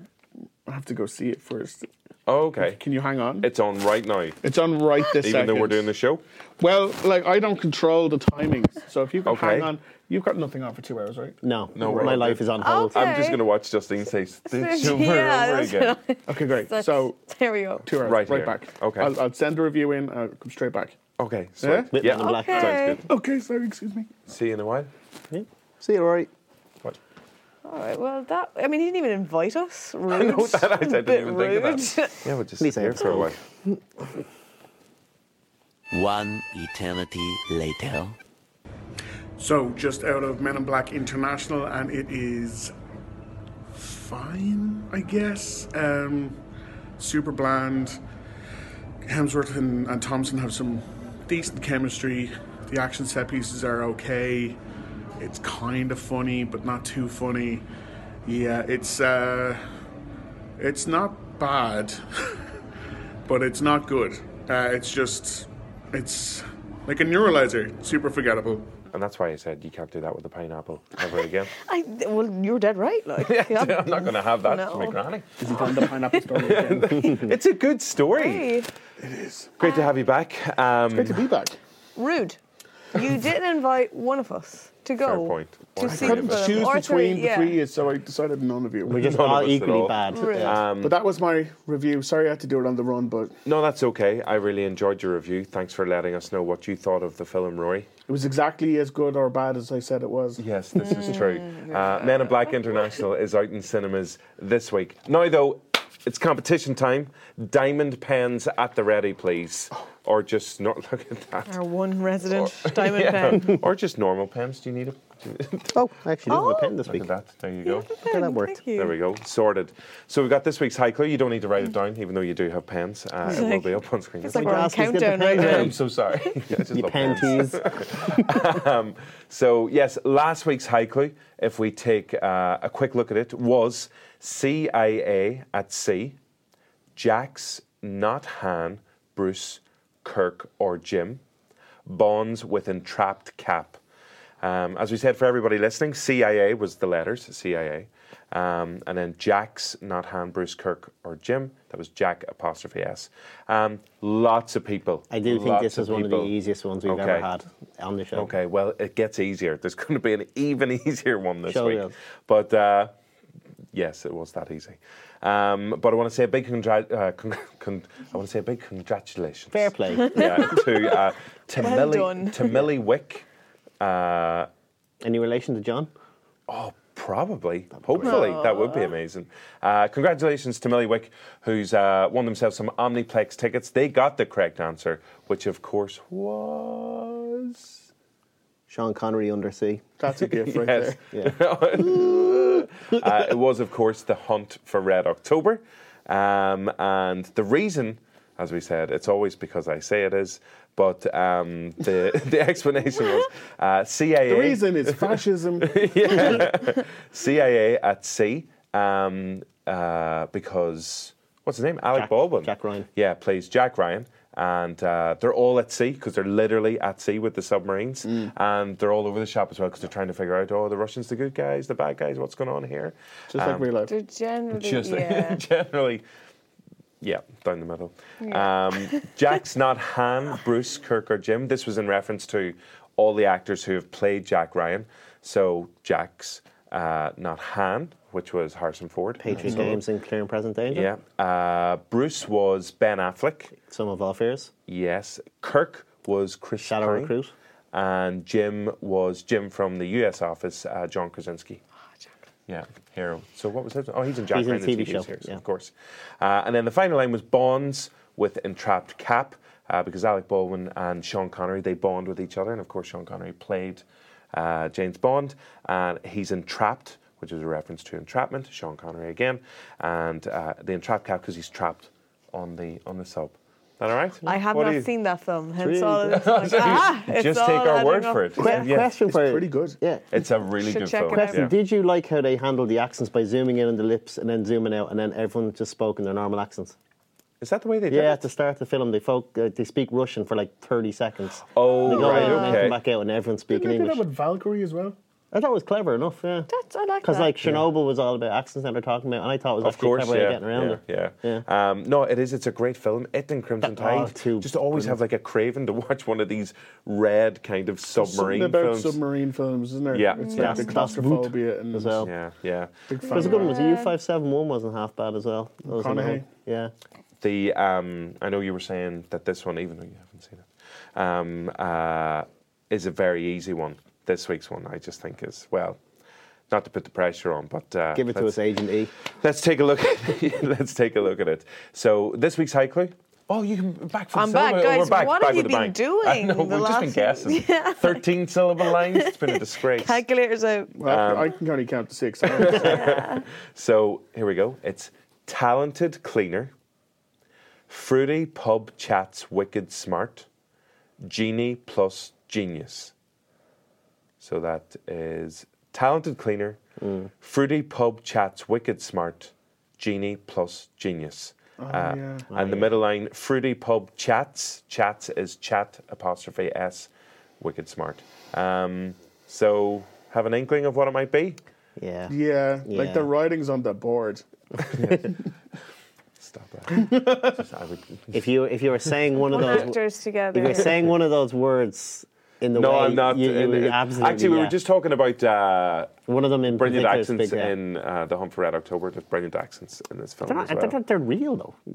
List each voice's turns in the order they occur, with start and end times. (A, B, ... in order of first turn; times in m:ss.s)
0:00.6-0:01.8 A
0:02.3-0:02.8 B
0:02.6-0:03.5 A
0:03.4-0:04.4 B
0:04.4-0:05.9 A
0:05.1-0:06.2 B
0:06.6-0:12.2 A
0:09.2-0:09.7 B
0:11.4-0:13.1 C
0:11.7-0:15.9 B
0:12.6-0:13.4 D
0:14.5-0:17.9 D
0:16.3-0:17.2 A
0:17.8-0:21.0 A
0:18.0-0:19.1 B
0:21.2-0:23.0 B
0:21.6-0:21.9 A
0:21.9-0:23.0 C
0:22.0-0:23.0 D
0:23.1-0:24.1 A
0:24.3-0:24.9 B
0:25.3-0:26.3 C
0:27.6-0:32.2 D
0:30.1-0:33.4 B
0:32.6-0:33.8 C
0:35.9-0:38.2 E
0:39.4-0:42.7 A
0:43.7-0:46.4 A
0:47.0-0:48.0 A
0:49.0-0:54.6 A
0:55.2-0:57.6 A
0:58.2-0:59.6 A
1:00.6-1:02.0 A
1:03.3-1:08.7 A
1:08.9-1:11.5 B
1:11.6-1:15.0 D
1:13.2-1:15.3 B
1:15.4-1:17.2 A
1:16.3-1:18.5 B
1:18.1-1:18.7 D
1:19.0-1:19.5 A
1:19.6-1:21.2 B
1:19.6-1:19.8 D
1:20.9-1:21.6 A
1:22.0-1:22.4 D
1:22.9-1:27.6 D
1:25.0-1:26.7 B
1:25.8-1:29.2 A
1:28.9-1:30.6 C
1:28.9-1:31.0 B
1:30.1-1:30.5 D
1:30.8-1:33.3 A
1:33.4-1:37.9 B
1:38.1-1:40.4 A
1:40.4-1:51.5 B
1:40.8-1:42.4 D
1:51.4-1:53.5 D
1:52.3-1:55.7 B
1:55.7-1:57.1 C
1:56.3-1:56.8 D
1:56.9-1:58.0 B
1:57.6-1:58.9 D
1:58.0-1:58.6 C
1:58.7-2:04.7 B
2:03.3-2:06.3 D
2:04.2-2:05.8 C
2:05.3-2:16.2 B
2:06.7-2:08.4 C
2:16.9-2:21.2 B
2:21.8-2:23.8 B
2:24.4-2:36.3 B
2:35.1-2:38.3 C
2:36.8-2:37.3 B
2:38.1-2:42.9 B
2:41.5-2:41.9 C
2:43.7-2:53.2 B
2:49.5-2:50.6 C
2:50.0-2:50.8 D
2:51.5-2:52.5 D
2:53.8-2:54.5 B
2:55.0-2:55.9 C
2:56.5-3:07.8 B
2:57.8-2:58.3 C
2:58.0-2:58.9 D
3:08.7-3:09.8 C
3:10.0-3:11.0 A
3:10.2-3:43.7 B
3:24.2-3:26.4 A
3:31.9-3:32.9 C
3:43.3-3:43.9 A
3:43.9-3:45.4 D
3:44.5-3:46.0 B
3:47.0-3:59.8 B
3:48.2-3:49.0 D
3:59.2-4:00.9 C
4:00.7-4:03.5 B
4:03.6-4:04.5 C
4:04.7-4:07.1 B
4:06.6-4:07.3 C
4:07.7-4:11.6 B
4:12.5-4:34.9 B
4:14.3-4:15.4 C
4:34.2-4:38.6 D
4:35.6-4:36.9 C
4:36.1-4:38.9 B
4:38.4-4:40.0 C
4:38.4-4:39.8 A
4:40.1-4:41.5 B
4:40.6-4:41.5 D
4:41.1-4:46.7 C
4:47.4-4:48.3 B
4:47.9-4:54.0 C
4:51.5-4:52.8 B
4:51.8-4:52.7 D
4:53.5-4:55.0 A
4:55.3-4:56.5 C
4:56.5-4:57.3 D
4:57.0-5:01.4 C
4:59.6-5:09.0 B
5:03.6-5:05.0 C
5:07.9-5:12.1 A
5:09.9-5:10.8 B
5:10.2-5:10.9 D
5:10.4-5:12.1 C
5:12.0-5:12.7 B
5:12.9-5:13.6 A
5:13.0-5:13.9 D
5:13.1-5:16.7 C
5:15.7-5:16.3 A
5:17.2-5:25.8 B
5:26.5-5:28.4 B
5:27.9-5:28.9 C
5:29.2-5:40.0 B
5:34.1-5:38.0 D
5:38.7-5:40.7 D
5:40.8-5:42.8 A
5:40.8-5:41.3 B
5:42.4-5:46.5 B
5:42.4-5:43.2 D
5:47.7-5:50.3 B
5:51.0-5:52.9 B
5:54.2-5:56.6 B
5:56.8-5:57.1 C
5:57.2-6:06.9 B
6:01.6-6:02.3 A
6:02.3-6:02.8 C
6:07.4-6:11.4 B
6:11.8-6:12.1 C
6:12.1-6:14.2 A
6:12.6-6:13.1 C
6:14.8-6:15.0 A
6:14.8-6:15.2 B
6:16.2-6:18.2 B
6:16.7-6:17.3 A
6:18.1-6:19.8 C
6:19.2-6:20.8 D
6:20.3-6:24.5 C
6:22.5-6:30.8 B
6:26.1-6:27.5 C
6:30.2-6:31.6 C